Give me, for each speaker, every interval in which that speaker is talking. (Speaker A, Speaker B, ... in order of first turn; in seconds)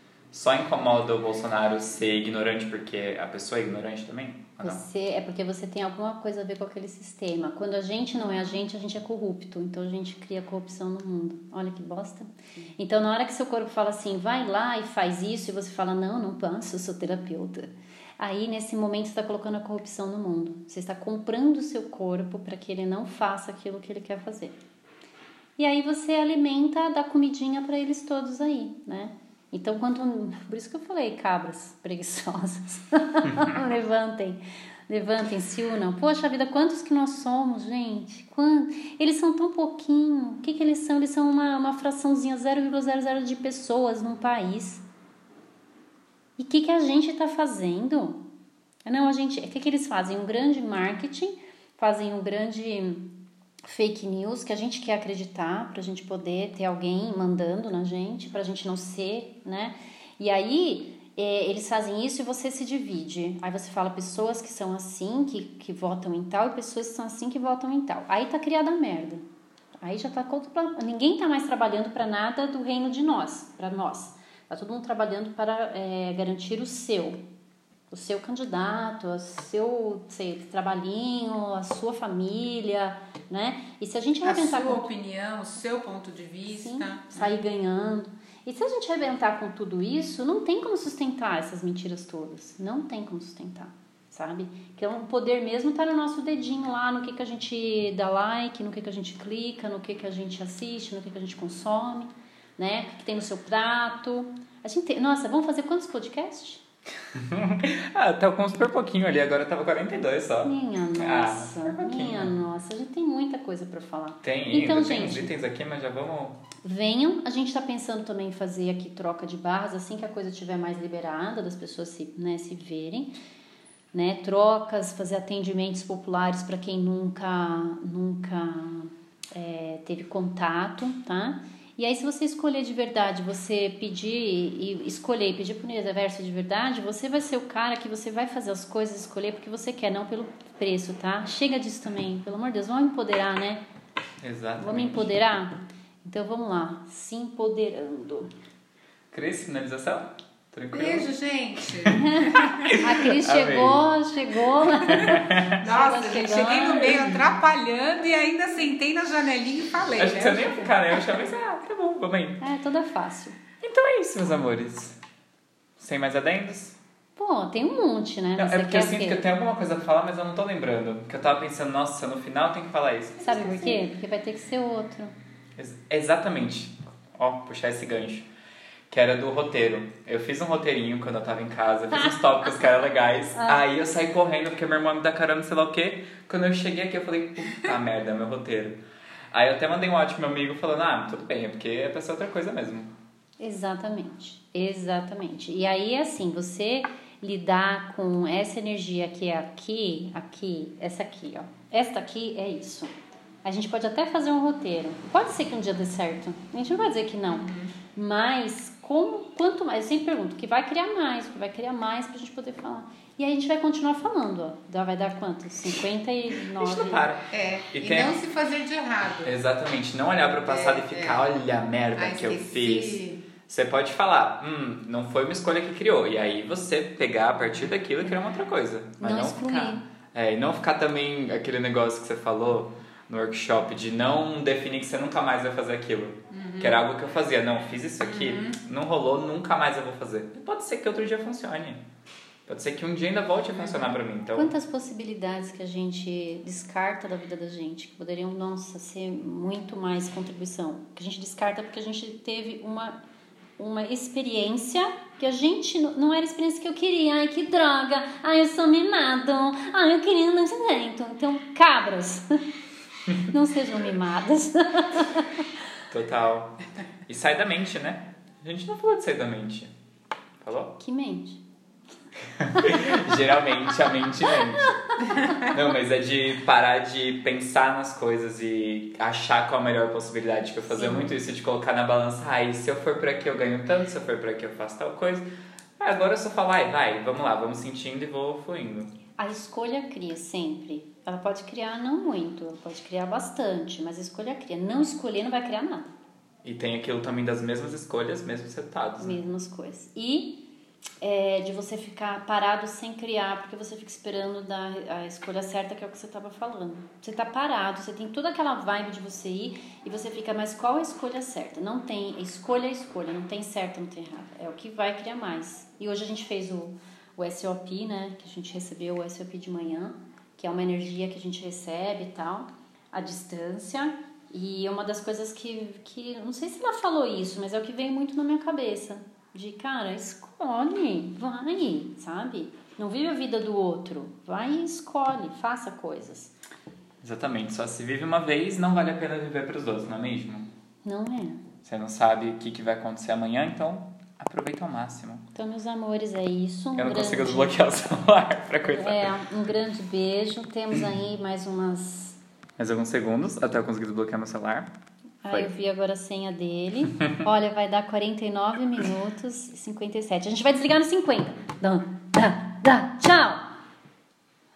Speaker A: 0.3-4.8, 107.1-112.4, 114.2-116.4, 144.2-145.2, 149.1-153.8, 154.8-155.6, 159.9-162.4, 163.6-165.0, 165.8-166.8, 168.4-173.4, 175.6-178.3, 178.9-188.8, 189.3-192.9, 216.6-218.2, 219.2-241.8, 242.5-244.5, 265.9-269.7, 270.4-270.7, 272.2-285.3, 285.8-288.9, 296.4-299.2, 337.0-340.5, 341.6-345.3, 346.8-349.1, 352.6-354.7
Speaker B: 4.6-24.6, 25.6-44.9, 46.4-48.2, 48.9-69.2, 69.8-77.2, 77.9-84.9, 86.5-106.6, 110.4-115.3, 116.6-123.1, 123.9-143.6, 144.6-148.3, 151.9-157.2, 162.4-163.4, 167.2-169.2, 173.2-175.1, 193.4-202.9, 203.4-217.1, 229.0-229.8, 244.3-253.0, 253.6-262.4, 263.1-265.5, 270.8-271.4, 272.6-273.0, 274.6-275.5, 280.7-281.1, 289.2-295.9, 299.0-300.4, 301.0-336.3, 340.8-341.5, 345.3-347.6, 348.7-352.2, 355.2-363.5
Speaker C: 84.2-87.3, 150.7-152.7, 155.6-160.5, 207.3-207.7, 217.3-219.3, 220.5-221.3, 222.0-223.2, 236.3-236.8, 238.0-238.6, 243.6-243.9